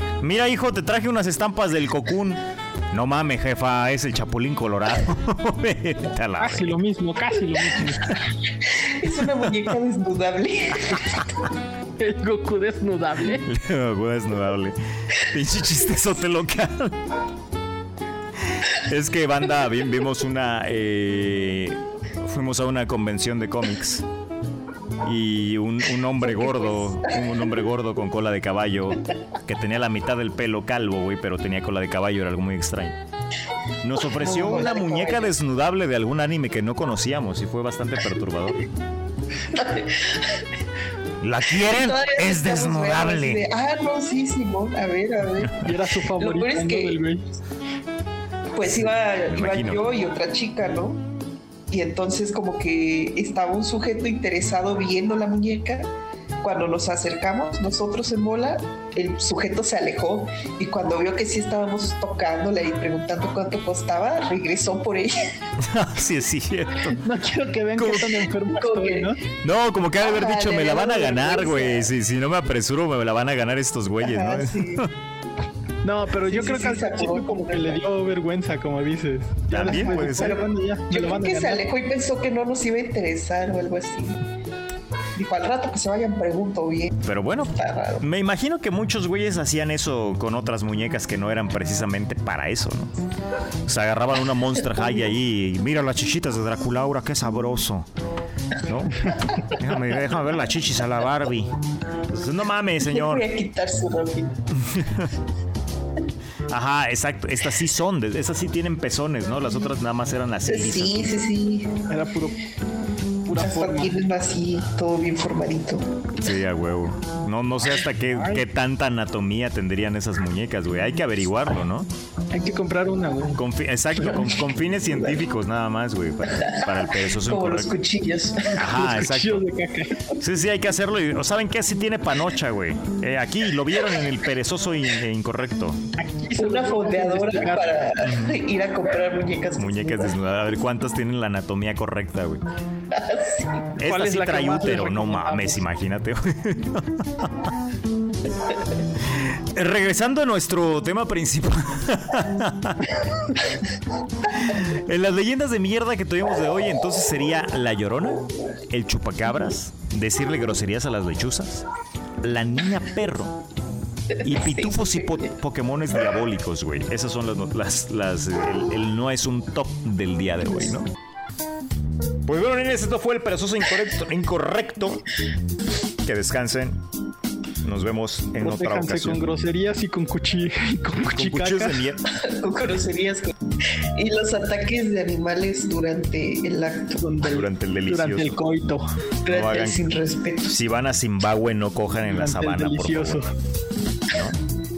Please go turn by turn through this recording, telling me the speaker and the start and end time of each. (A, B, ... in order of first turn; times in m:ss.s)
0:00.2-0:06.8 A
0:06.4-0:08.2 B
0:08.6-0:11.4 C
0:12.0-0:13.5 B
0:13.4-0:17.0 A
0:18.4-0:24.0 A
0:25.0-0:33.0 A
0:26.2-0:27.4 C
0:33.8-0:38.6 A
0:34.0-0:35.3 C
0:39.5-0:40.5 C
0:41.2-0:43.4 A
0:41.6-0:45.6 C
0:45.4-0:45.7 A
0:45.6-0:47.2 B
0:46.1-0:47.0 C
0:48.5-0:51.0 C
0:48.6-0:49.8 A
0:51.7-0:55.9 C
0:56.4-1:05.2 C
1:05.6-1:07.0 A
1:07.0-1:09.2 B
1:07.8-1:08.2 A
1:08.5-1:09.2 C
1:09.4-1:14.9 A
1:10.0-1:11.9 C
1:14.0-1:14.8 C
1:15.8-1:21.6 B
1:16.2-1:17.8 C
1:19.5-1:20.4 A
1:19.6-1:24.2 C
1:25.2-1:27.0 C
1:27.0-1:32.9 A
1:27.5-1:28.0 C
1:33.6-1:37.9 A
1:38.6-1:41.5 A
1:39.2-1:39.5 C
1:42.1-1:43.2 A
1:42.8-1:44.4 C
1:44.5-1:45.1 A
1:46.5-1:51.2 A
1:50.5-1:51.8 C
1:51.9-1:52.4 B
1:53.2-1:54.0 B
1:53.3-1:55.9 C
1:56.2-2:01.9 A
1:58.0-1:58.4 B
2:02.3-2:03.4 B
2:03.3-2:07.7 A
2:04.0-2:05.2 C
2:06.3-2:08.6 C
2:08.5-2:09.5 A
2:08.6-2:10.0 B
2:10.2-2:15.8 A
2:16.0-2:17.7 B
2:16.4-2:20.2 C
2:18.0-2:18.4 A
2:19.6-2:22.4 A
2:22.9-2:23.8 C
2:23.8-2:27.5 A
2:23.8-2:25.6 B
2:29.0-2:33.0 A
2:34.3-2:41.6 A
2:42.2-2:43.4 A
2:44.2-2:45.3 C
2:44.2-2:50.9 A
2:52.2-2:55.1 A
2:56.0-2:56.8 A
2:57.6-2:59.2 A
2:58.4-3:01.8 B
3:01.0-3:02.0 A
3:02.1-3:07.0 C
3:07.0-3:08.8 B
3:07.2-3:08.4 A
3:09.2-3:10.5 C
3:09.3-3:09.8 A
3:10.4-3:13.3 A
3:12.1-3:13.3 B
3:14.1-3:14.4 A